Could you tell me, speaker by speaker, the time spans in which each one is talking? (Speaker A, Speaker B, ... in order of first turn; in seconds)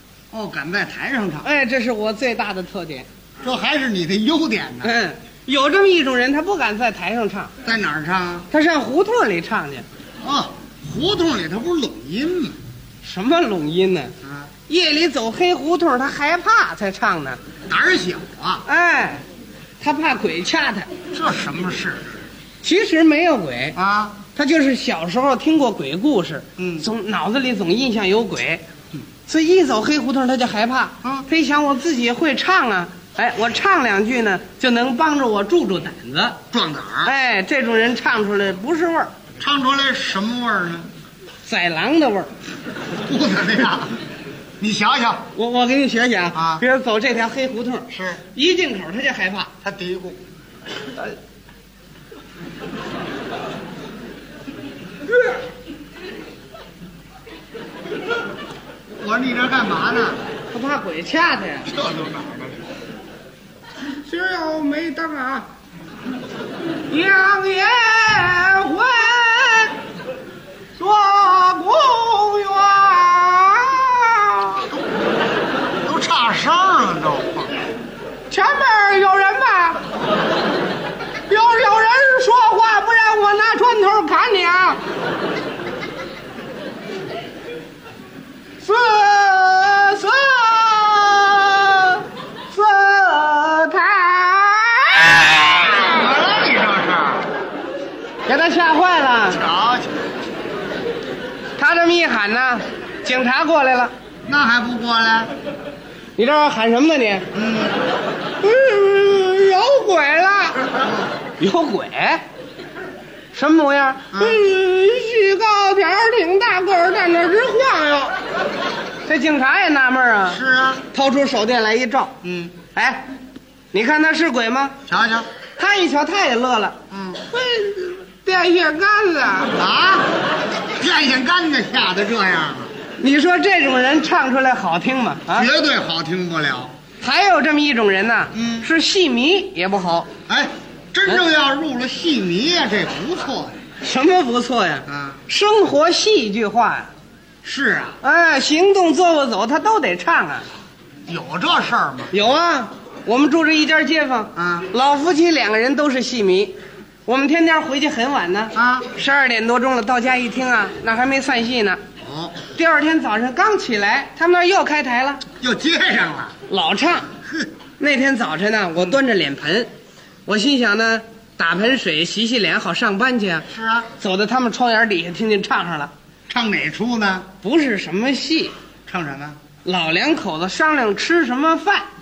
Speaker A: 0.3-1.5, 3.4-5.0, 7.6-8.5, 10.2-12.6, 14.2-14.5, 17.7-18.6, 21.1-22.2, 23.8-24.2, 26.6-26.9, 36.5-37.1, 39.4-40.9, 43.0-44.0, 44.6-45.3, 46.3-46.6, 47.9-48.2, 49.6-50.2, 59.0-60.2, 61.7-62.6, 75.8-77.6, 95.3-97.3, 99.3-99.9, 104.3-105.3, 107.3-107.8, 110.8-111.1, 114.1-114.4, 120.3-120.8, 122.2-122.5, 124.9-125.3, 126.9-127.2, 129.6-132.7, 135.3-136.7, 138.3-138.7, 140.3-143.6, 144.9-145.2, 147.4-148.0, 151.1-152.1, 154.3-154.7, 158.5-158.9, 162.0-162.4, 165.4-166.3, 173.5-173.9, 176.3-177.3, 178.8-179.4
Speaker B: 1.4-3.1, 4.8-7.5, 8.5-9.9, 13.0-14.1, 14.7-17.4, 18.7-19.2, 19.8-20.9, 22.6-23.8, 24.4-28.6, 29.3-36.4, 37.0-39.1, 41.5-42.3, 45.3-49.5, 60.5-61.8, 64.0-65.5, 66.9-69.8, 70.8-74.7, 78.3-79.9, 81.3-84.8, 88.6-95.8, 98.3-99.4, 101.6-103.9, 106.2-107.3, 108.4-110.8, 111.4-112.2, 113.3-118.2, 119.0-120.4, 120.9-122.1, 122.7-123.1, 123.7-124.8, 125.6-126.8, 127.3-129.6, 133.0-135.5, 137.0-140.1, 143.8-146.9, 148.0-150.5, 152.1-156.5, 157.1-161.8, 162.5-165.2, 166.5-167.1, 167.8-169.7, 170.2-173.4, 174.0-175.9, 177.4-178.5, 179.6-181.9